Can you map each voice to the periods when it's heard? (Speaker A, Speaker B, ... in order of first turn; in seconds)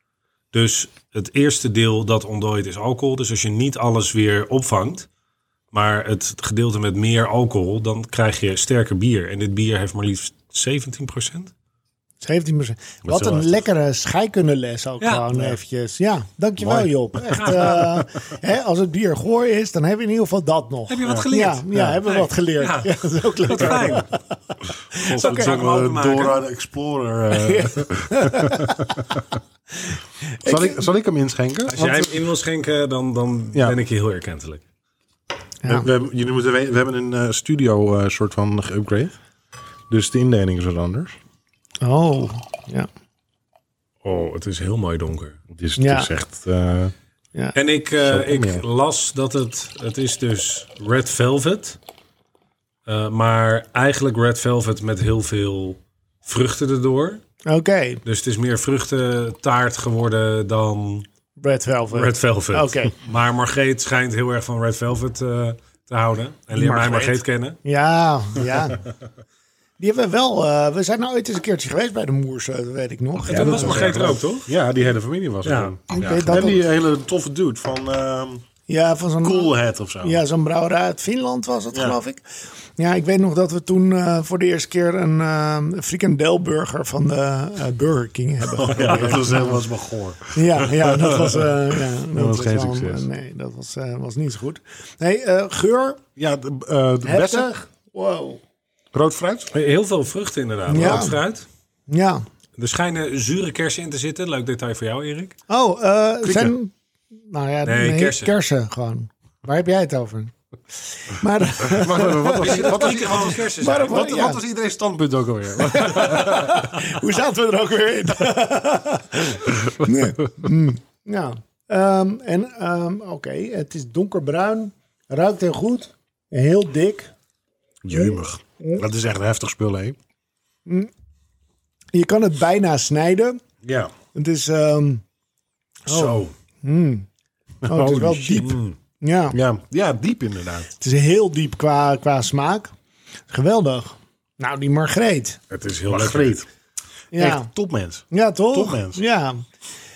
Speaker A: 0.5-5.1, 5.7-11.5, 15.0-15.5, 17.2-18.0, 20.9-24.1, 25.2-26.4, 31.7-34.6, 44.0-45.4, 47.5-51.8, 52.9-57.2, 58.0-61.1, 61.9-67.6, 73.2-74.5, 75.5-75.8, 99.5-101.5, 102.6-105.3, 107.7-108.3, 112.3-114.1, 135.9-136.3, 138.4-138.8, 145.5-146.4
Speaker B: 12.2-25.6, 27.3-29.1, 30.4-30.9, 35.6-35.9, 41.8-42.9, 45.8-46.1, 57.5-58.0, 61.4-62.9, 66.6-68.8, 69.8-74.2, 75.9-76.6, 78.7-82.2, 82.8-89.6, 90.3-96.0, 97.1-98.4, 100.7-101.2, 101.9-102.2, 105.5-106.7, 107.3-110.3, 110.9-114.4, 115.6-127.1, 127.9-128.8, 131.9-133.4, 134.1-135.0, 135.9-137.1, 137.7-139.4, 140.8-142.7, 143.3-145.4, 147.1-147.5, 148.1-149.4
Speaker C: 13.1-13.5, 16.6-18.0, 21.1-22.0, 25.0-29.2, 30.4-31.9, 35.6-39.2, 39.9-41.1, 45.5-46.9, 48.0-48.6, 73.3-78.4, 79.2-80.2, 88.6-93.0, 96.2-97.5, 98.9-99.5, 106.2-106.5, 111.6-116.9, 127.8-130.0, 133.6-133.9, 137.6-138.5, 139.3-140.7, 145.9-146.5, 147.1-149.0